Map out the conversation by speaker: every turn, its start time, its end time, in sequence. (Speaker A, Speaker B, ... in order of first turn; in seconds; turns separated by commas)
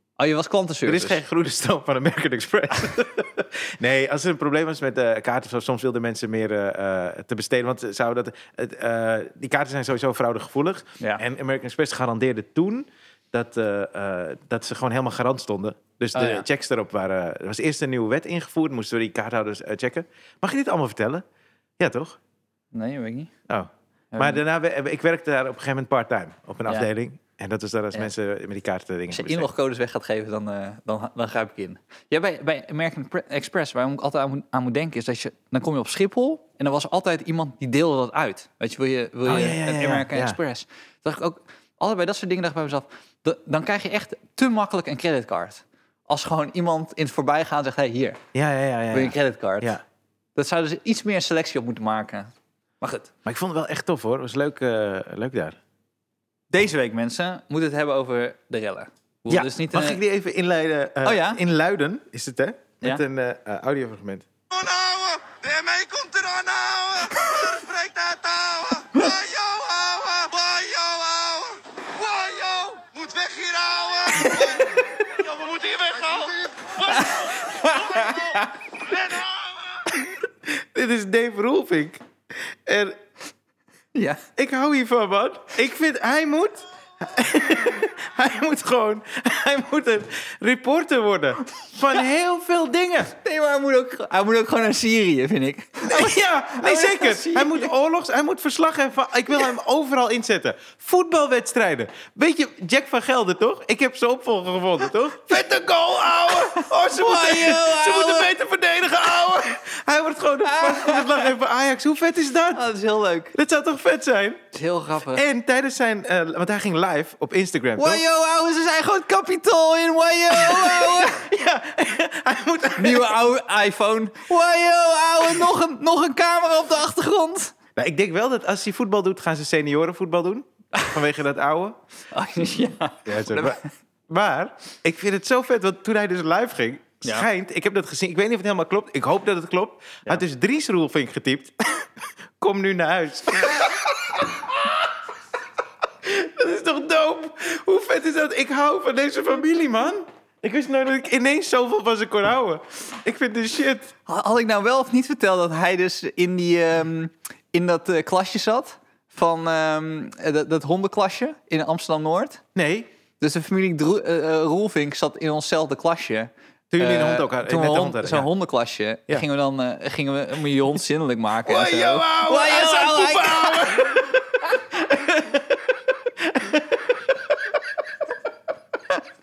Speaker A: 0.2-1.2, Speaker B: 0.8-21.2, Speaker A: 16.1-16.4, Speaker B: 21.8-22.2, Speaker A: 22.7-23.3, Speaker B: 23.5-29.5, Speaker A: 24.1-24.4, Speaker A: 29.1-48.2, Speaker B: 39.2-40.4, Speaker B: 48.3-49.8, Speaker A: 48.9-49.8, Speaker A: 50.4-53.1, Speaker B: 53.2-55.6, Speaker A: 56.5-60.0, Speaker B: 59.3-64.3, Speaker A: 61.0-61.4, Speaker C: 64.5-80.0, Speaker A: 76.9-78.5, Speaker B: 80.5-82.0, Speaker B: 82.5-83.0, Speaker A: 83.9-84.2, Speaker B: 84.4-93.1, Speaker A: 93.2-97.7, Speaker B: 95.8-112.6, Speaker A: 106.5-108.3, Speaker A: 110.4-111.3, Speaker A: 112.5-113.3, Speaker B: 113.3-114.4, Speaker A: 114.5-115.2, Speaker B: 115.1-118.0, Speaker A: 117.8-121.2, Speaker B: 120.3-123.2, Speaker A: 122.8-127.5, Speaker B: 127.8-131.8, Speaker A: 132.1-133.7, Speaker B: 133.1-144.9, Speaker B: 146.0-153.9, Speaker A: 154.1-162.4, Speaker B: 162.5-162.9, Speaker A: 163.2-173.8, Speaker B: 166.7-168.3, Speaker B: 171.4-177.6